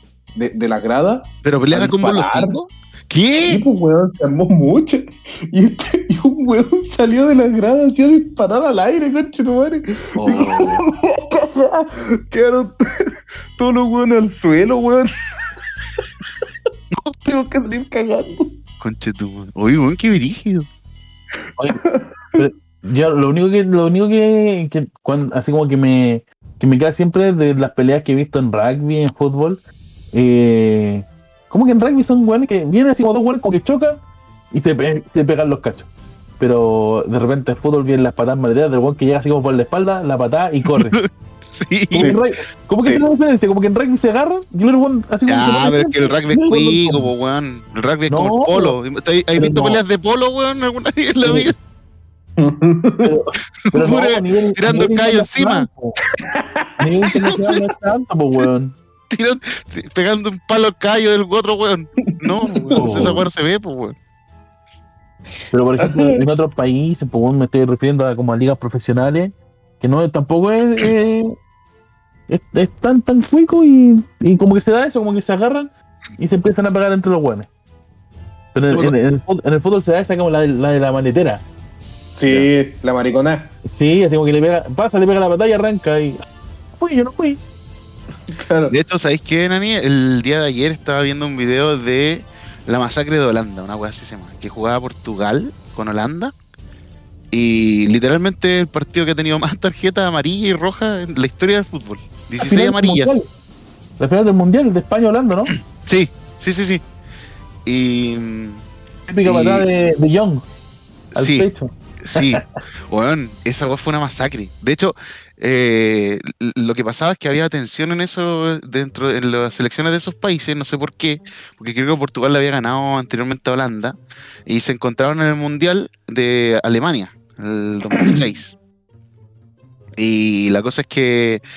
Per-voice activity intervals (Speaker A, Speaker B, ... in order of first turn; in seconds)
Speaker A: 0.3-2.5, 3.4-15.1, 17.2-18.6, 21.8-22.4, 42.0-42.2, 52.4-53.1, 56.2-56.7, 62.2-63.1, 65.8-66.2, 82.2-83.5, 88.3-88.8
Speaker B: 1.4-3.6, 10.2-10.8, 18.8-20.7, 40.6-42.1, 45.3-51.6, 53.6-55.7, 57.1-57.6, 59.1-64.0, 88.7-96.3, 97.3-103.2, 105.7-106.8, 107.7-108.6, 109.2-109.7, 111.1-111.5, 112.0-124.0, 124.5-128.6, 130.0-131.4
Speaker C: 22.4-29.6, 30.1-41.0, 41.9-47.1, 48.1-48.8, 49.3-49.8, 51.2-51.5, 53.0-56.0, 56.8-58.8, 62.7-63.2, 65.5-71.3, 72.3-77.5, 78.5-81.4, 83.7-86.2, 86.8-87.4, 102.4-103.3, 104.0-105.5, 109.1-110.4, 111.2-112.4